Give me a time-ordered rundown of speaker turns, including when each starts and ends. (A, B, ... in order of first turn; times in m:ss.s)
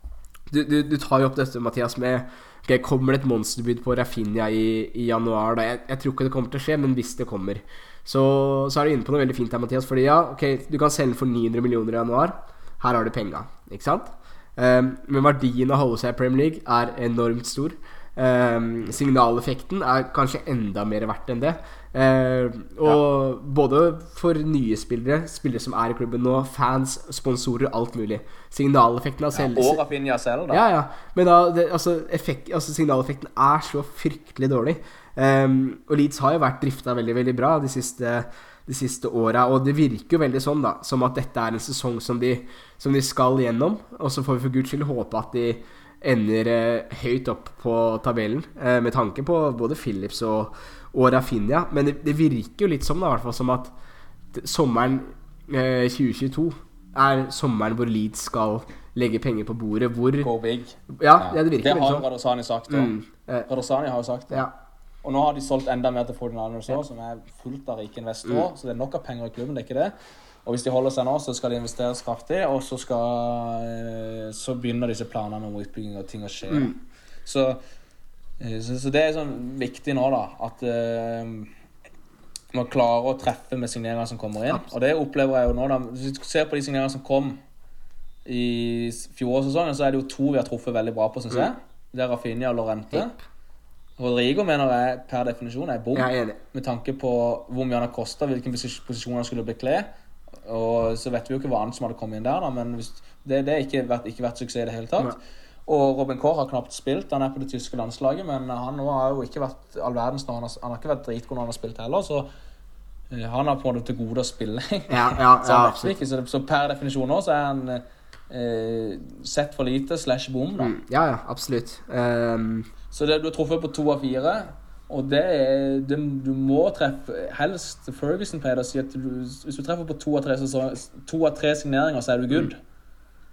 0:00.5-0:29.8 A
0:29.3-0:30.6 B
0:30.5-0:53.7 A
0:54.3-1:00.3 A
1:00.2-1:02.9 B
1:00.9-1:02.1 A
1:02.7-1:03.5 A
1:03.5-1:04.5 B
1:05.0-1:09.9 B
1:10.4-1:16.8 B
1:16.5-1:16.8 A
1:17.3-1:17.6 B
1:18.4-1:21.5 B
1:22.5-1:27.4 B
1:28.3-1:33.2 B
1:34.0-1:39.9 B
1:36.0-1:36.4 A
1:40.4-1:52.3 B
1:53.1-2:00.7 B
1:54.9-1:55.9 A
2:00.6-2:02.7 A
2:02.9-2:12.6 B